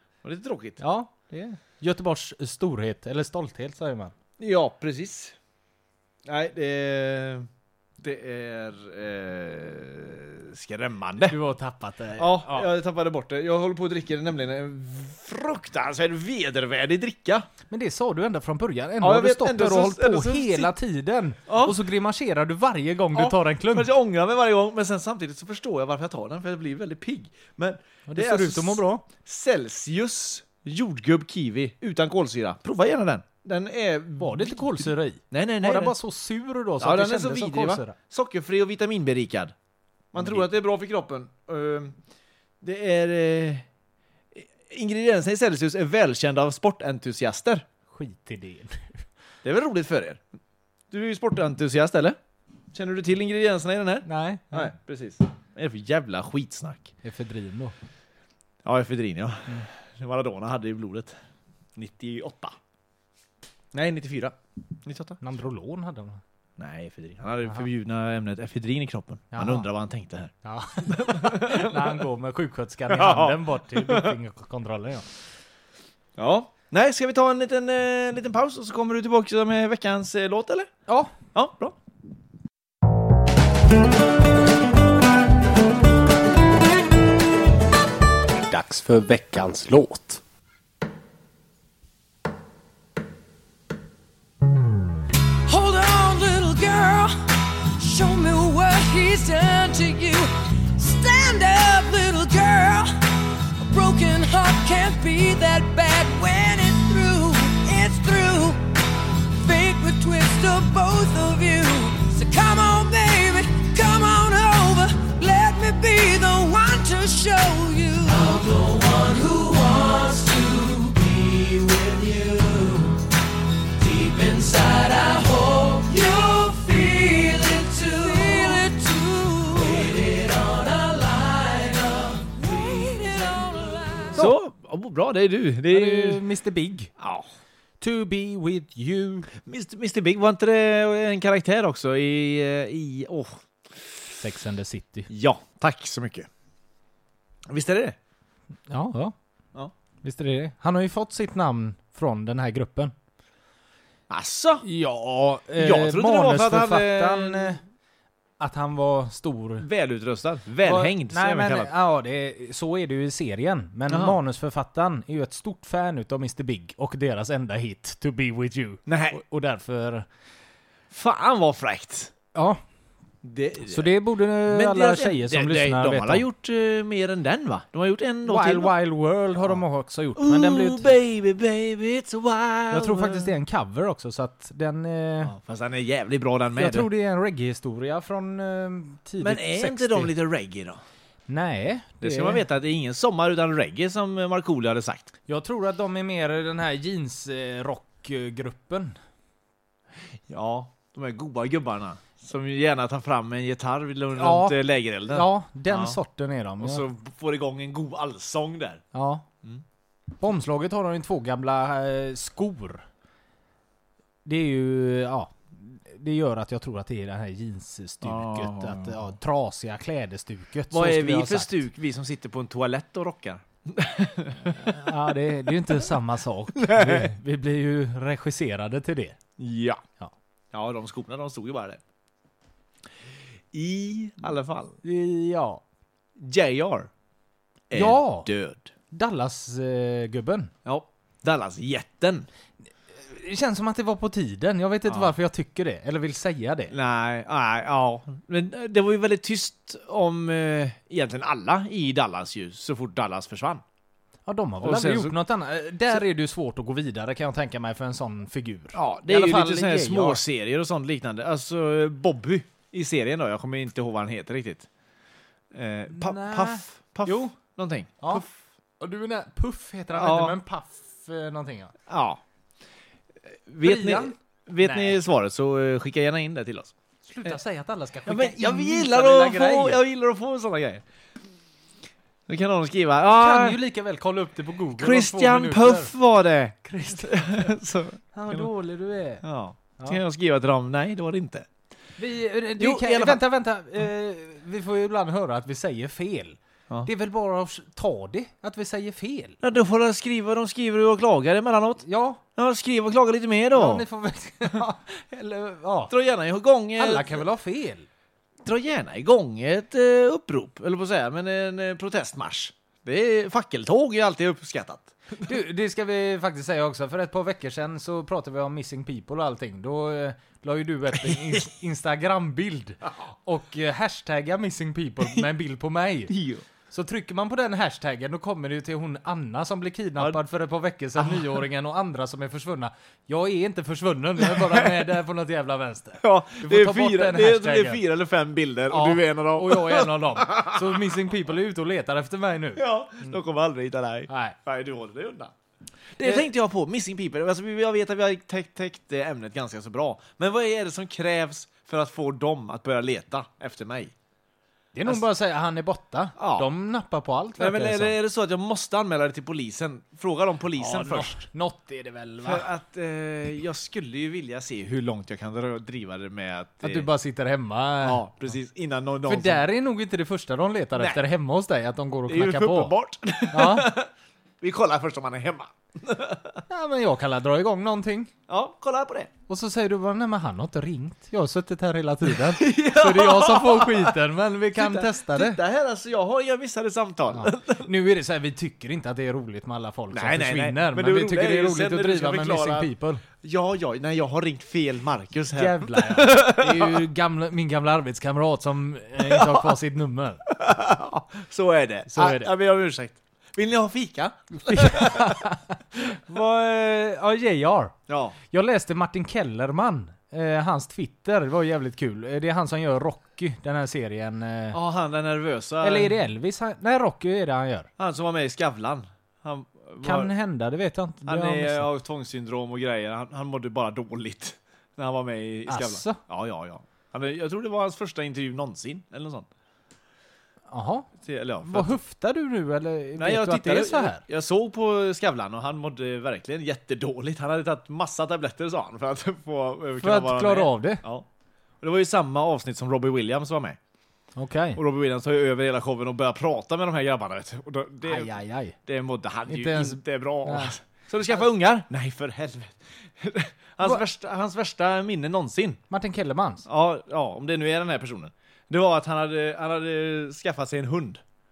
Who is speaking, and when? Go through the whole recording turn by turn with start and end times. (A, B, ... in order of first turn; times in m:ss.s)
0:00.2-0:00.8 A
0:00.8-0:04.1 B
0:04.4-0:05.4 A
0:06.2-0:07.5 A
0:08.0-0:11.4 A
0:11.2-0:12.7 B
0:12.2-0:17.5 A
0:17.7-0:23.9 B
0:19.0-0:20.7 A
0:21.5-0:21.8 A
0:23.1-0:36.0 A
0:28.1-0:29.0 B
0:34.2-0:37.9 B
0:36.8-0:39.5 A
0:40.1-0:42.0 A
0:40.2-0:40.4 B
0:42.6-0:43.6 A
0:44.3-0:47.6 A
0:47.9-0:49.0 B
0:49.4-0:50.2 A
0:50.9-0:52.2 A
0:52.7-0:56.9 A
0:54.0-0:54.7 B
0:57.0-0:57.7 B
0:58.6-1:01.2 A
1:01.8-1:02.6 A
1:03.7-1:05.2 A
1:05.2-1:06.2 B
1:06.6-1:10.3 A
1:09.3-1:09.7 B
1:10.4-1:15.0 B
1:10.8-1:12.0 A
1:12.9-1:14.2 A
1:16.2-1:20.7 A
1:20.9-1:21.1 B
1:21.3-1:21.8 A
1:28.5-1:30.2 B
1:35.5-1:37.1 C
1:37.8-1:42.9 C
1:43.6-1:48.6 C
1:49.3-2:02.9 C
2:03.8-2:14.1 C
2:14.1-2:16.2 A
2:15.7-2:16.9 B
2:17.0-2:17.3 A
2:17.8-2:19.3 B
2:19.4-2:23.4 A
2:24.2-2:25.1 B
2:25.1-2:26.3 A
2:27.5-2:28.0 A
2:28.7-2:29.1 B
2:30.0-2:32.9 B
2:34.1-2:34.6 A
2:34.6-2:37.6 B
2:35.6-2:37.6 A
2:38.4-2:39.6 B
2:39.6-2:41.7 A
2:40.6-2:50.0 B
2:43.9-2:44.2 A
2:48.8-2:49.2 A
2:50.9-2:52.1 A
2:52.3-2:52.6 B
2:53.2-2:58.7 A
2:53.7-2:56.2 B
2:58.2-3:00.9 B
3:00.2-3:03.3 A
3:02.7-3:05.3 B
3:05.2-3:06.9 A
3:06.6-3:10.1 B
3:09.2-3:10.8 A
3:11.3-3:12.4 B
3:12.0-3:15.1 A
3:15.3-3:19.0 B
3:20.3-3:26.0 A
3:24.2-3:26.8 B
3:26.6-3:28.8 A
3:28.9-3:29.2 B
3:30.2-3:32.8 B
3:34.2-3:41.6 B
3:38.0-3:39.1 A
3:40.7-3:44.8 A
3:44.4-3:49.2 B
3:46.6-3:47.1 A
3:49.4-3:49.8 A
3:50.5-3:51.8 A
3:53.5-3:54.8 A
3:54.8-3:55.6 B
3:56.2-3:56.9 A
3:57.7-3:58.7 A
3:57.7-3:58.3 B
3:58.9-4:00.5 B
4:00.6-4:02.3 A
4:03.0-4:06.7 B
4:04.9-4:05.2 A
4:06.7-4:13.6 A
4:14.2-4:20.2 B
4:14.6-4:15.2 A
4:18.7-4:24.7 A
4:25.5-4:28.3 A
4:25.9-4:27.3 B
4:28.8-4:31.7 B
4:29.9-4:30.4 A
4:31.9-4:32.2 A
4:33.5-4:36.7 A
4:33.6-4:35.0 B
4:37.0-4:39.8 B
4:38.0-4:40.8 A
4:42.3-4:43.6 A
4:43.1-4:45.9 B
4:44.7-4:48.5 A
4:46.6-4:47.5 B
4:48.1-4:49.2 B
4:49.2-4:51.5 A
4:52.0-4:59.4 B
4:52.6-4:53.2 A
4:59.4-5:01.8 A
5:01.8-5:02.2 B
5:02.4-5:03.8 A
5:03.5-5:05.9 B
5:05.9-5:07.2 A
5:06.8-5:07.9 B
5:08.4-5:14.9 A
5:15.2-5:26.1 B
5:20.9-5:21.4 A
5:26.1-5:26.4 A
5:26.7-5:37.8 B
5:30.0-5:30.2 A
5:31.0-5:31.4 A
5:34.2-5:34.9 A
5:36.0-5:40.8 A
5:38.7-5:43.1 B
5:42.6-5:45.3 A
5:44.1-5:44.4 B
5:46.0-5:53.9 A
5:54.7-5:57.9 B
5:56.2-5:56.5 A
5:57.4-6:01.2 A
6:00.6-6:02.5 B
6:02.2-6:06.9 A
6:06.6-6:08.0 B
6:07.8-6:09.4 A
6:09.0-6:12.7 B
6:10.8-6:11.0 A
6:12.1-6:13.9 A
6:13.3-6:13.7 B
6:14.4-6:16.4 A
6:16.5-6:18.1 B
6:18.3-6:19.1 A
6:19.3-6:25.4 B
6:22.0-6:24.0 A
6:24.5-6:27.7 A
6:27.1-6:33.0 B
6:29.9-6:32.7 A
6:33.2-6:36.8 A
6:35.3-6:40.2 B
6:39.0-6:39.5 A
6:40.3-6:45.2 A
6:41.9-6:42.3 B
6:44.5-6:47.7 B
6:47.9-6:48.2 A
6:48.3-6:54.6 B
6:54.5-6:56.0 A
6:55.6-6:57.7 B
6:57.8-7:00.1 A
6:59.8-7:01.7 B
7:01.0-7:09.3 A
7:05.5-7:06.0 B
7:10.5-7:10.9 B
7:11.0-7:11.8 A
7:11.4-7:14.0 B
7:13.0-7:21.1 A
7:19.8-7:20.8 B
7:21.6-7:23.6 A
7:24.2-7:24.6 B
7:24.6-7:28.1 A
7:27.8-7:28.6 B
7:28.6-7:35.6 A
7:29.3-7:30.5 B
7:35.7-7:36.4 B
7:36.4-7:41.0 A